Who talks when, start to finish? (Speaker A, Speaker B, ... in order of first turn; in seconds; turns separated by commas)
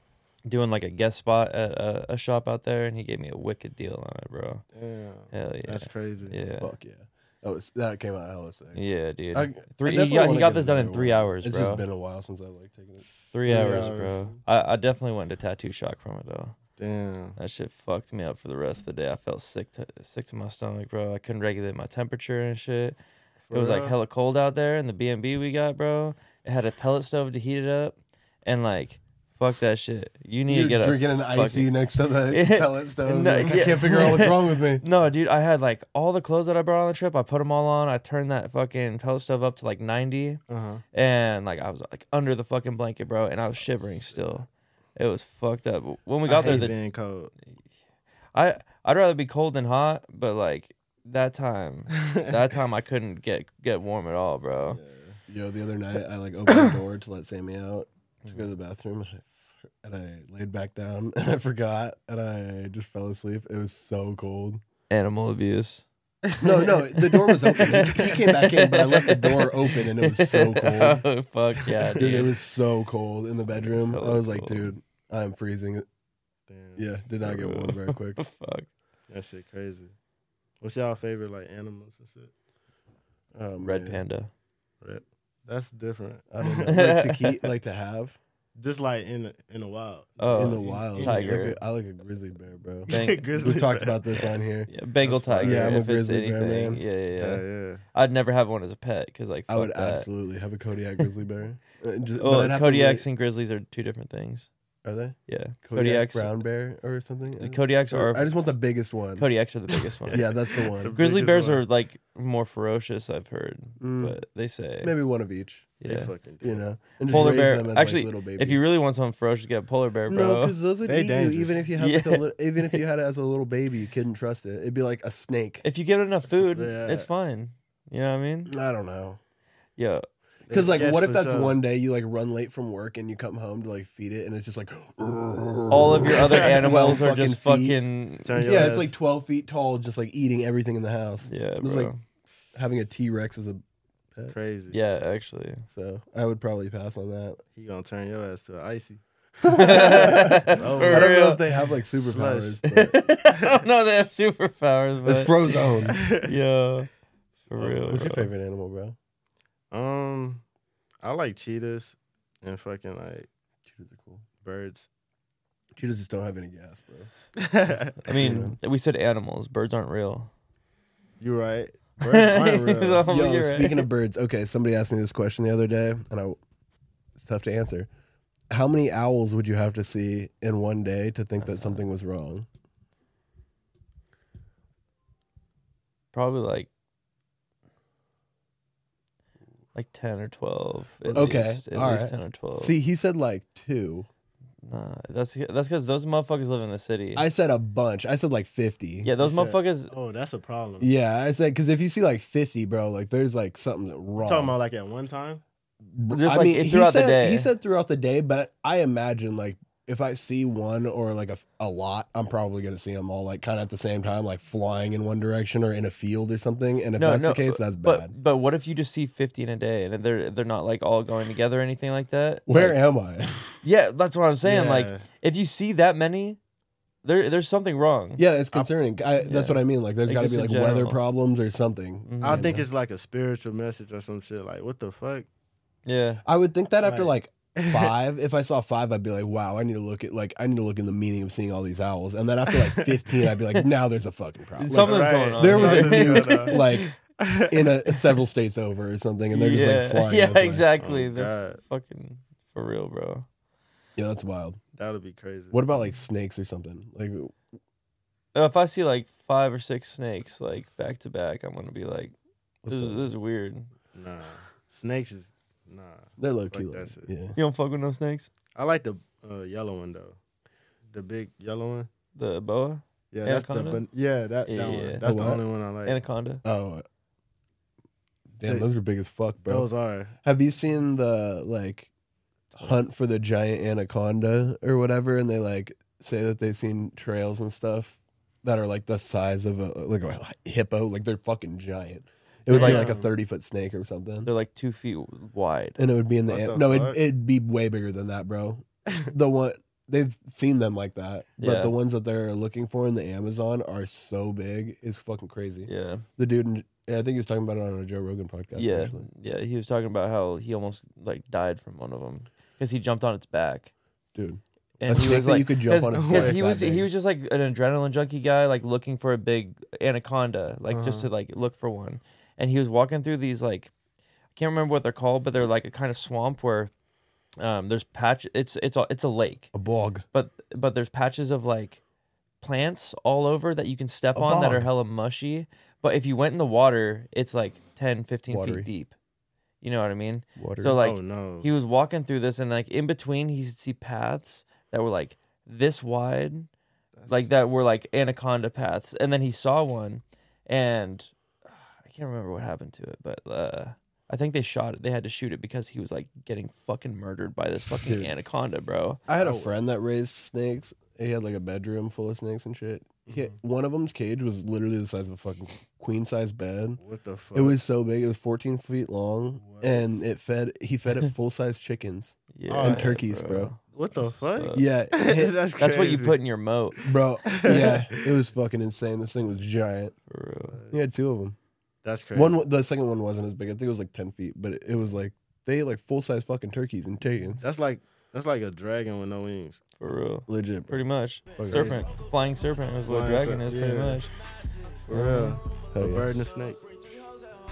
Speaker A: 0.4-4.6, Speaker B: 4.7-6.4, Speaker A: 5.3-6.7, Speaker C: 6.6-8.8, Speaker A: 8.7-11.8, Speaker C: 9.3-14.1, Speaker A: 13.3-16.5, Speaker B: 13.3-14.3, Speaker B: 16.8-17.4, Speaker A: 17.4-22.9, Speaker B: 23.5-23.9, Speaker A: 23.5-31.7, Speaker C: 30.5-34.8, Speaker A: 32.3-40.4, Speaker B: 40.5-40.8, Speaker A: 40.9-46.8, Speaker B: 46.2-47.3, Speaker A: 48.3-54.8, Speaker B: 51.9-52.3, Speaker B: 54.7-55.2, Speaker C: 55.3-64.6, Speaker A: 64.9-65.8, Speaker B: 66.3-66.7, Speaker C: 66.4-71.0, Speaker A: 66.6-72.3, Speaker C: 72.0-75.8, Speaker A: 73.5-74.7, Speaker B: 76.5-76.8, Speaker C: 76.8-78.2, Speaker A: 77.2-78.7, Speaker B: 79.1-79.9, Speaker B: 80.6-82.3, Speaker C: 83.3-84.0, Speaker A: 83.6-84.3, Speaker B: 84.8-86.8, Speaker C: 86.3-88.2, Speaker A: 86.7-87.5, Speaker B: 88.5-91.4, Speaker A: 90.2-91.6, Speaker C: 90.3-94.7, Speaker A: 92.9-93.2, Speaker B: 92.9-94.2, Speaker A: 94.7-97.4, Speaker B: 95.0-95.8, Speaker C: 95.4-96.8, Speaker B: 97.2-97.8, Speaker A: 97.9-100.1, Speaker C: 99.5-103.0, Speaker A: 102.2-104.5, Speaker C: 104.8-109.2, Speaker A: 105.3-106.3, Speaker A: 107.4-108.3, Speaker A: 109.2-110.3, Speaker B: 110.1-111.6, Speaker C: 110.1-110.9, Speaker A: 110.9-114.9, Speaker C: 113.8-114.1, Speaker C: 114.8-115.7, Speaker A: 115.8-116.1, Speaker B: 115.8-116.7, Speaker C: 116.4-118.7, Speaker A: 117.1-120.5, Speaker C: 120.1-125.6, Speaker B: 120.8-121.7, Speaker A: 121.8-122.8, Speaker A: 125.6-128.5, Speaker B: 126.4-127.1, Speaker C: 128.5-129.2, Speaker A: 129.8-130.1, Speaker B: 130.5-131.6, Speaker C: 130.5-137.8, Speaker A: 135.7-138.7, Speaker B: 136.0-137.0, Speaker B: 138.2-138.9, Speaker C: 138.4-141.9, Speaker A: 141.3-142.0, Speaker C: 142.5-143.6, Speaker B: 144.3-144.8, Speaker A: 144.7-145.7, Speaker C: 145.7-147.4, Speaker B: 147.6-149.0, Speaker C: 149.4-153.1, Speaker A: 149.5-151.4, Speaker B: 149.6-152.6, Speaker A: 152.6-156.9, Speaker B: 153.3-153.7, Speaker C: 155.0-156.0, Speaker B: 155.9-156.3, Speaker A: 157.5-158.3, Speaker B: 157.5-158.1, Speaker C: 157.9-159.0, Speaker B: 159.7-160.4, Speaker B: 161.0-163.3, Speaker C: 163.7-164.2, Speaker B: 164.4-164.9, Speaker C: 165.7-167.1, Speaker B: 167.4-168.0, Speaker A: 168.0-170.3, Speaker C: 168.2-168.6, Speaker B: 171.2-173.1, Speaker A: 172.0-173.9, Speaker C: 173.1-176.4, Speaker C: 177.2-177.9, Speaker C: 178.5-182.5, Speaker A: 181.4-181.8, Speaker A: 186.1-186.7, Speaker A: 189.7-192.7, Speaker C: 191.1-194.1, Speaker A: 194.6-197.2, Speaker C: 197.1-199.1, Speaker A: 199.0-199.9, Speaker B: 199.2-200.9, Speaker C: 200.8-204.5, Speaker B: 204.2-205.4, Speaker C: 205.8-218.1, Speaker A: 206.1-207.5, Speaker A: 217.0-222.8, Speaker C: 222.5-223.6, Speaker A: 223.6-226.4, Speaker B: 224.4-225.1, Speaker A: 227.0-228.2, Speaker C: 228.2-232.7, Speaker A: 229.2-231.0, Speaker A: 232.1-232.5, Speaker B: 232.2-235.3, Speaker A: 235.8-236.2, Speaker C: 236.2-250.7, Speaker B: 236.8-237.9, Speaker A: 244.6-246.9, Speaker B: 244.7-246.6, Speaker B: 247.2-247.6, Speaker A: 249.3-253.3, Speaker B: 250.8-251.6, Speaker C: 254.0-254.6, Speaker B: 254.8-255.6, Speaker C: 255.5-257.3, Speaker A: 258.3-262.1, Speaker C: 262.6-263.1, Speaker A: 262.7-263.7, Speaker B: 263.9-267.1, Speaker C: 266.2-267.4, Speaker A: 267.4-268.3, Speaker B: 268.5-270.2, Speaker B: 270.9-271.9, Speaker A: 272.1-273.8, Speaker B: 273.1-276.0, Speaker A: 274.4-275.0, Speaker C: 275.0-275.4, Speaker A: 275.9-276.4, Speaker C: 276.4-276.8, Speaker C: 278.4-279.7, Speaker B: 279.4-280.1, Speaker C: 280.2-281.9, Speaker C: 282.6-294.3, Speaker A: 292.5-292.9, Speaker B: 292.5-293.1, Speaker A: 294.2-295.8, Speaker C: 295.8-309.1, Speaker B: 296.3-297.0, Speaker A: 301.4-301.8, Speaker A: 305.6-306.1, Speaker A: 308.5-313.7, Speaker C: 314.1-316.9, Speaker A: 314.8-323.7, Speaker B: 315.9-316.4, Speaker B: 320.7-321.1, Speaker A: 324.3-326.7, Speaker A: 327.4-329.5, Speaker C: 329.5-330.0, Speaker A: 330.1-331.8, Speaker A: 332.4-338.9, Speaker C: 334.1-334.7, Speaker C: 338.3-338.7, Speaker A: 339.6-346.5, Speaker C: 340.4-340.8, Speaker B: 340.8-341.5, Speaker B: 346.9-347.2, Speaker A: 347.1-359.0, Speaker C: 357.8-358.1, Speaker C: 359.1-366.8, Speaker B: 359.2-359.5, Speaker B: 363.1-363.3, Speaker B: 366.8-367.6, Speaker C: 367.3-373.5, Speaker B: 369.4-369.9, Speaker A: 372.3-374.6, Speaker B: 372.5-373.0, Speaker B: 373.7-376.2, Speaker C: 374.5-375.3, Speaker A: 375.6-376.8, Speaker C: 376.8-379.9, Speaker B: 377.2-378.2, Speaker A: 380.1-380.6, Speaker B: 380.5-380.8, Speaker C: 380.7-381.4, Speaker B: 381.8-382.4, Speaker C: 382.1-387.4, Speaker B: 387.4-389.6, Speaker A: 389.8-394.1, Speaker C: 390.3-391.8, Speaker B: 391.5-391.9, Speaker B: 392.9-394.1, Speaker B: 394.8-397.1, Speaker A: 394.9-395.4, Speaker C: 395.7-396.1